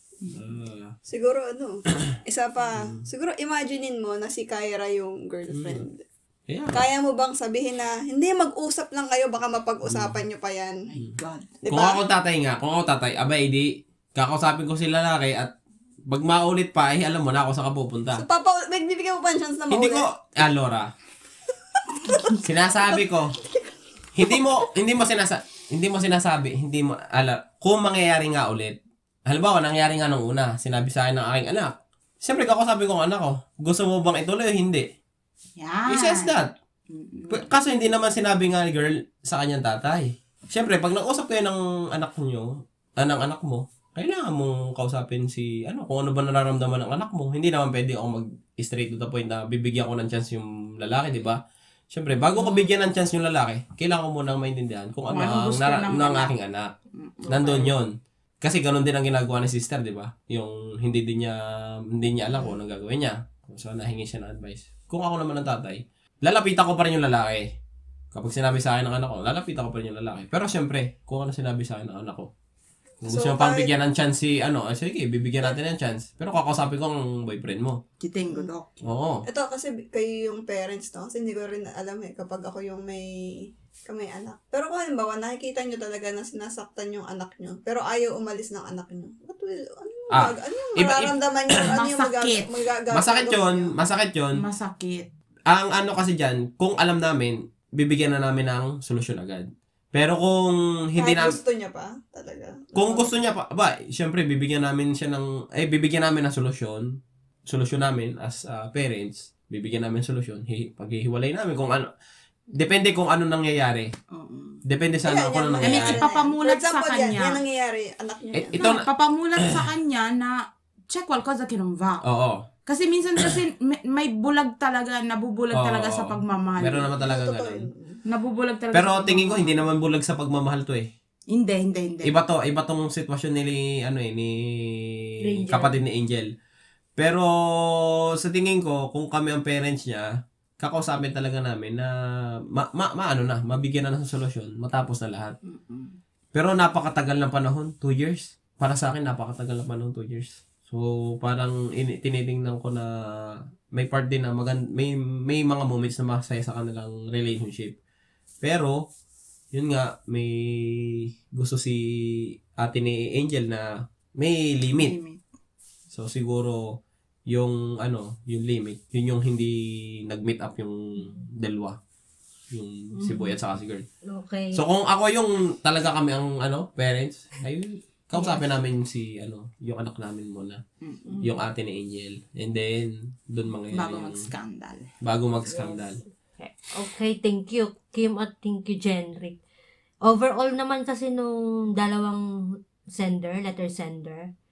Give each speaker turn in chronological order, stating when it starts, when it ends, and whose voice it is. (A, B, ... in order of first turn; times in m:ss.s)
0:00.2-0:00.6 A
0:00.3-0:00.9 B
0:01.1-0:06.0 C
0:02.7-0:03.1 B
0:05.5-0:05.8 B
0:06.5-0:06.8 B
0:06.7-0:10.8 C
0:09.9-0:10.2 B
0:10.9-0:11.5 A
0:11.6-0:12.0 C
0:11.7-0:15.5 B
0:16.1-0:18.2 B
0:18.1-0:20.1 C
0:19.7-0:20.9 B
0:21.9-0:23.0 C
0:22.4-0:23.4 B
0:24.2-0:34.9 B
0:35.6-0:36.3 A
0:35.9-0:36.5 B
0:36.9-0:37.5 A
0:37.3-0:56.7 B
0:52.4-0:52.7 D
0:55.1-0:56.3 A
0:57.0-0:57.8 A
0:57.3-1:01.4 B
1:01.9-1:07.5 B
1:08.1-1:12.3 B
1:13.0-1:17.8 B
1:13.0-1:13.7 C
1:18.0-1:18.8 A
1:18.8-1:19.2 B
1:19.3-1:33.7 C
1:30.1-1:31.7 B
1:31.7-1:32.5 A
1:32.9-1:34.4 B
1:34.4-1:35.1 A
1:35.5-1:41.4 B
1:41.0-1:43.1 C
1:42.8-1:46.9 B
1:47.5-1:51.9 B
1:52.5-1:53.9 B
1:54.1-1:54.6 A
1:54.7-1:56.1 B
1:55.0-1:58.8 C
1:55.6-1:57.4 A
1:58.4-1:58.8 B
1:58.6-2:00.4 A
2:00.9-2:02.0 A
2:02.0-2:02.4 B
2:02.7-2:06.9 A
2:05.5-2:07.7 B
2:07.0-2:08.0 C
2:08.1-2:09.7 A
2:08.7-2:10.9 B
2:11.3-2:12.2 A
2:12.0-2:16.3 B
2:15.2-2:15.8 D
2:17.0-2:20.1 B
2:20.6-2:21.9 B
2:22.5-2:25.4 B
2:25.5-2:26.0 A
2:26.3-2:32.9 B
2:33.8-2:37.8 B
2:38.4-2:38.8 B
2:39.5-2:45.0 B
2:44.8-2:45.2 A
2:45.9-2:46.7 B
2:47.3-2:51.8 B
2:52.5-2:53.9 B
2:53.0-2:53.4 D
2:54.0-2:54.6 D
2:54.5-3:00.6 B
3:00.8-3:01.3 A
3:01.2-3:04.2 B
3:03.7-3:04.9 A
3:05.0-3:06.0 B
3:06.7-3:09.4 D
3:10.0-3:12.2 D
3:13.0-3:14.3 D